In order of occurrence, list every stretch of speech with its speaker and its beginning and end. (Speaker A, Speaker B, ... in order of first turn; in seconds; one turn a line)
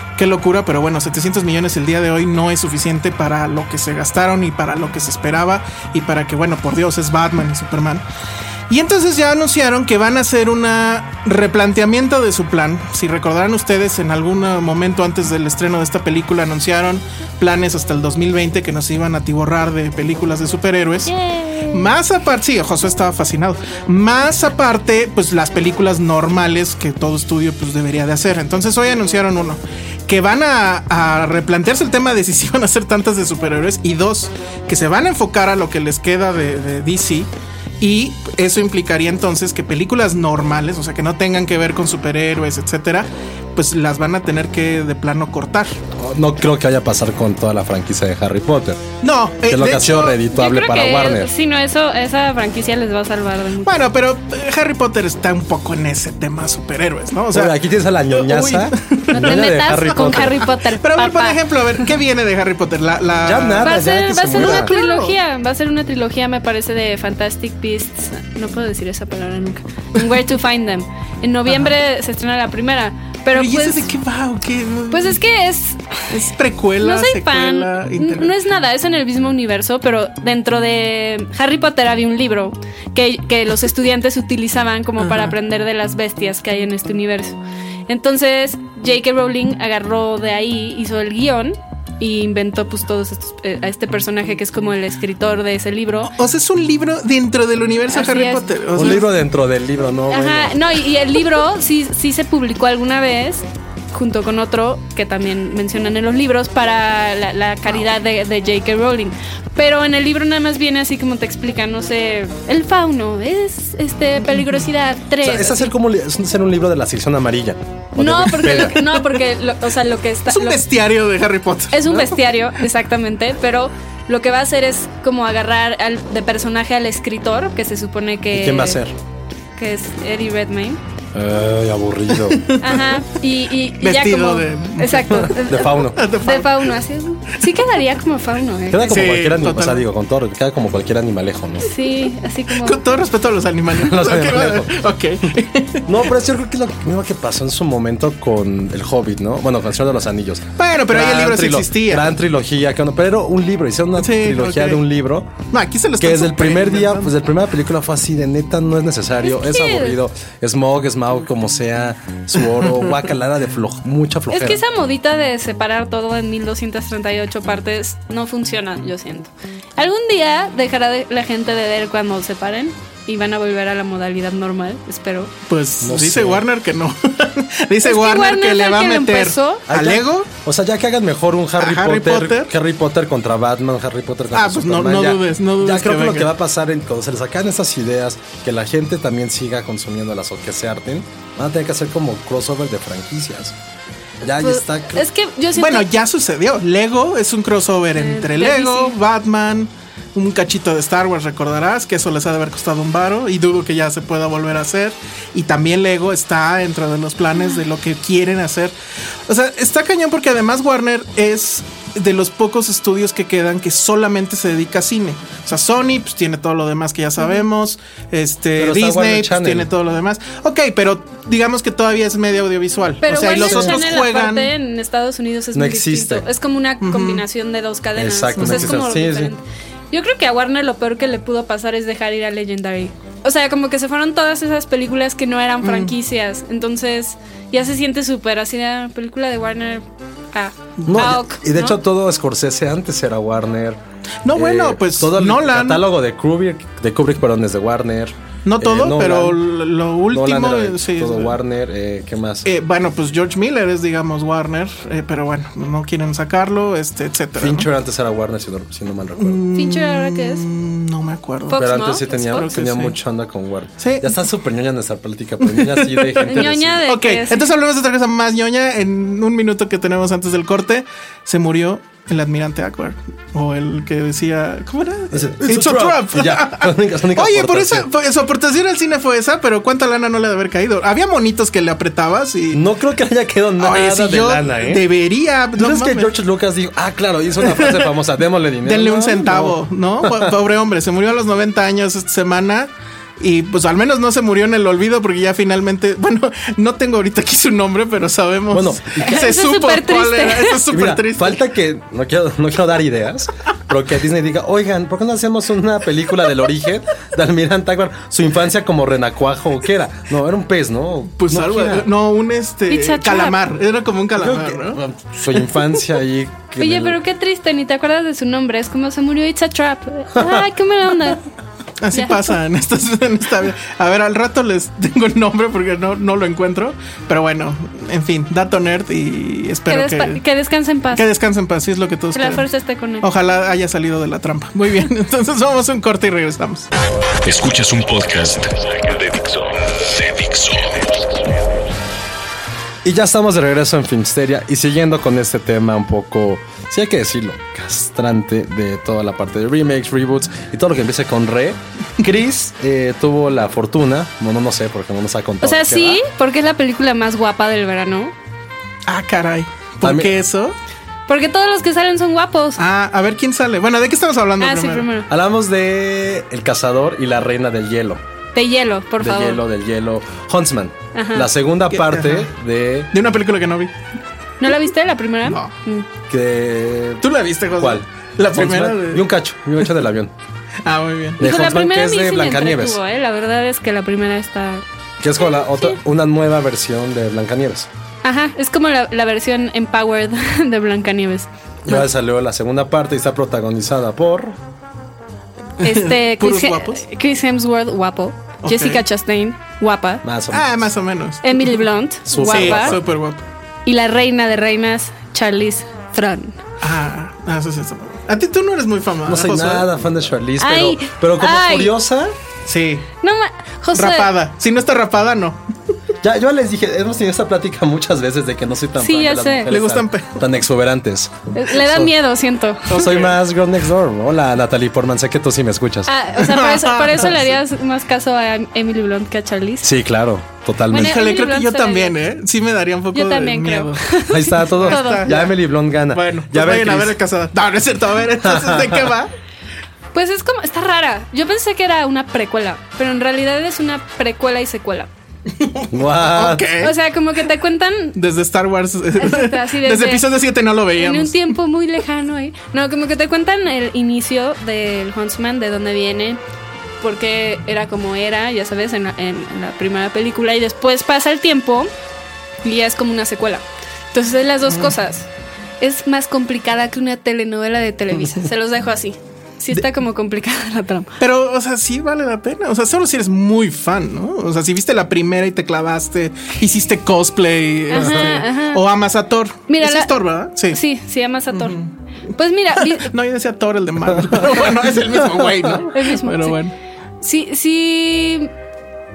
Speaker A: 0.2-8.0
Speaker A: 8.7-21.1
Speaker B: 21.1-21.9
Speaker A: 21.7-37.3
Speaker A: 37.8-45.7
Speaker C: 46.0-48.8
Speaker A: 49.0-50.2
Speaker C: 49.5-51.3
Speaker B: 50.3-53.9
Speaker A: 53.6-57.6
Speaker C: 57.3-60.4
Speaker A: 58.1-63.8
Speaker B: 59.1-61.4
Speaker C: 63.2-64.7
Speaker B: 63.6-73.9
Speaker A: 64.3-65.2
Speaker A: 71.5-71.7
Speaker A: 73.3-75.2
Speaker B: 74.9-76.1
Speaker A: 76.1-78.4
Speaker B: 76.8-96.1
Speaker A: 85.0-85.3
Speaker A: 96.1-99.1
Speaker B: 97.9-99.0
Speaker C: 98.8-100.6
Speaker B: 100.1-115.7
Speaker A: 114.3-114.6
Speaker C: 115.2-118.8
Speaker B: 118.0-120.6
Speaker A: 118.4-118.7
Speaker A: 120.3-122.2
Speaker B: 121.7-128.8
Speaker C: 128.3-128.9
Speaker B: 129.6-130.8
Speaker C: 131.1-132.4
Speaker A: 132.1-133.0
Speaker B: 132.6-139.0
Speaker A: 133.8-136.7
Speaker C: 135.1-136.0
Speaker C: 138.7-141.7
Speaker A: 138.8-139.8
Speaker B: 141.6-142.8
Speaker A: 142.6-146.0
Speaker C: 143.7-144.8
Speaker C: 145.9-155.3
Speaker A: 150.6-152.1
Speaker A: 154.0-154.8
Speaker A: 155.5-157.1
Speaker C: 156.0-164.6
Speaker B: 159.2-160.0
Speaker B: 164.3-175.3
Speaker A: 175.5-180.3
Speaker C: 175.8-176.4
Speaker B: 177.8-179.7
Speaker C: 179.7-193.6
Speaker A: 181.6-182.5
Speaker A: 184.3-186.3
Speaker C: 194.2-195.0
Speaker B: 194.4-195.9
Speaker A: 195.6-208.8
Speaker B: 198.0-199.0
Speaker A: 209.3-224.5
Speaker C: 218.6-219.7
Speaker B: 223.0-241.8
Speaker C: 223.3-224.0
Speaker C: 225.5-226.3
Speaker A: 226.8-227.2
Speaker C: 228.0-229.3
Speaker A: 228.4-228.8
Speaker A: 235.6-235.9
Speaker A: 240.8-241.1
Speaker C: 240.9-243.8
Speaker A: 244.2-245.8
Speaker C: 244.3-249.4
Speaker A: 248.5-251.4
Speaker C: 250.1-252.5
Speaker A: 252.4-257.7
Speaker C: 257.4-259.4
Speaker A: 259.2-261.7
Speaker B: 259.5-260.5
Speaker B: 261.5-262.6
Speaker C: 261.5-266.8
Speaker A: 262.2-263.0
Speaker A: 263.8-264.2
Speaker A: 265.4-282.6
Speaker B: 266.2-267.5
Speaker C: 275.1-277.9
Speaker C: 282.5-284.9
Speaker A: 283.6-286.1
Speaker C: 285.6-290.4
Speaker A: 287.4-287.9
Speaker A: 288.6-301.4
Speaker C: 298.5-299.2
Speaker B: 299.0-300.6
Speaker C: 300.7-311.9
Speaker A: 311.2-314.8
Speaker B: 312.7-313.4
Speaker C: 314.2-317.0
Speaker B: 316.6-321.2
Speaker C: 320.1-320.5
Speaker A: 321.8-330.2
Speaker B: 321.9-322.2
Speaker B: 329.7-331.1
Speaker A: 330.9-332.4
Speaker B: 332.1-333.1
Speaker A: 333.0-336.7
Speaker D: 337.2-341.4
Speaker C: 342.8-356.0
Speaker B: 355.4-358.1
Speaker A: 358.9-360.6
Speaker C: 359.8-360.1
Speaker B: 361.1-362.6
Speaker A: 362.6-364.9
Speaker B: 364.4-365.1
Speaker C: 365.1-368.0
Speaker B: 368.4-369.4
Speaker C: 369.0-372.9
Speaker B: 370.9-371.3
Speaker A: 371.7-372.3
Speaker A: 372.9-373.7
Speaker B: 374.4-375.9
Speaker A: 375.2-375.5
Speaker C: 376.1-377.1
Speaker A: 377.0-379.1
Speaker C: 377.6-380.1
Speaker A: 380.6-381.2
Speaker C: 381.2-382.8
Speaker B: 381.2-384.6
Speaker C: 385.0-387.7
Speaker B: 385.2-385.8
Speaker B: 388.0-391.3
Speaker C: 391.6-394.4
Speaker A: 395.6-396.8
Speaker B: 395.6-400.0
Speaker A: 398.4-398.8
Speaker C: 400.0-400.7
Speaker A: 400.3-401.7
Speaker B: 401.2-402.8
Speaker C: 402.1-402.8
Speaker A: 402.2-403.2
Speaker B: 403.7-406.4
Speaker A: 406.6-409.8
Speaker C: 409.1-412.1
Speaker B: 410.4-411.7
Speaker A: 412.4-412.9
Speaker B: 413.0-414.1
Speaker A: 413.7-415.4
Speaker C: 416.0-421.9
Speaker B: 418.8-419.5
Speaker A: 419.5-420.2
Speaker B: 421.3-422.8
Speaker C: 422.7-425.9
Speaker A: 422.7-423.2
Speaker B: 425.9-429.7
Speaker A: 426.2-427.4
Speaker C: 429.6-431.0
Speaker B: 430.7-432.0
Speaker A: 430.7-435.4
Speaker B: 432.9-435.1
Speaker C: 434.1-437.0
Speaker A: 435.9-439.1
Speaker C: 438.2-438.9
Speaker B: 439.9-444.9
Speaker A: 445.4-446.7
Speaker C: 445.7-446.5
Speaker B: 446.6-448.0
Speaker A: 447.9-451.4
Speaker B: 449.0-450.1
Speaker B: 450.8-456.2
Speaker B: 456.8-461.7
Speaker B: 462.4-465.1
Speaker A: 464.5-464.7
Speaker B: 465.6-470.9
Speaker A: 471.0-480.6
Speaker B: 477.7-478.6
Speaker C: 477.8-478.1
Speaker B: 479.5-479.9
Speaker B: 480.5-481.6
Speaker A: 481.3-481.7
Speaker B: 482.1-482.9
Speaker A: 482.6-486.5
Speaker C: 483.9-485.6
Speaker B: 485.7-486.4
Speaker B: 487.0-488.3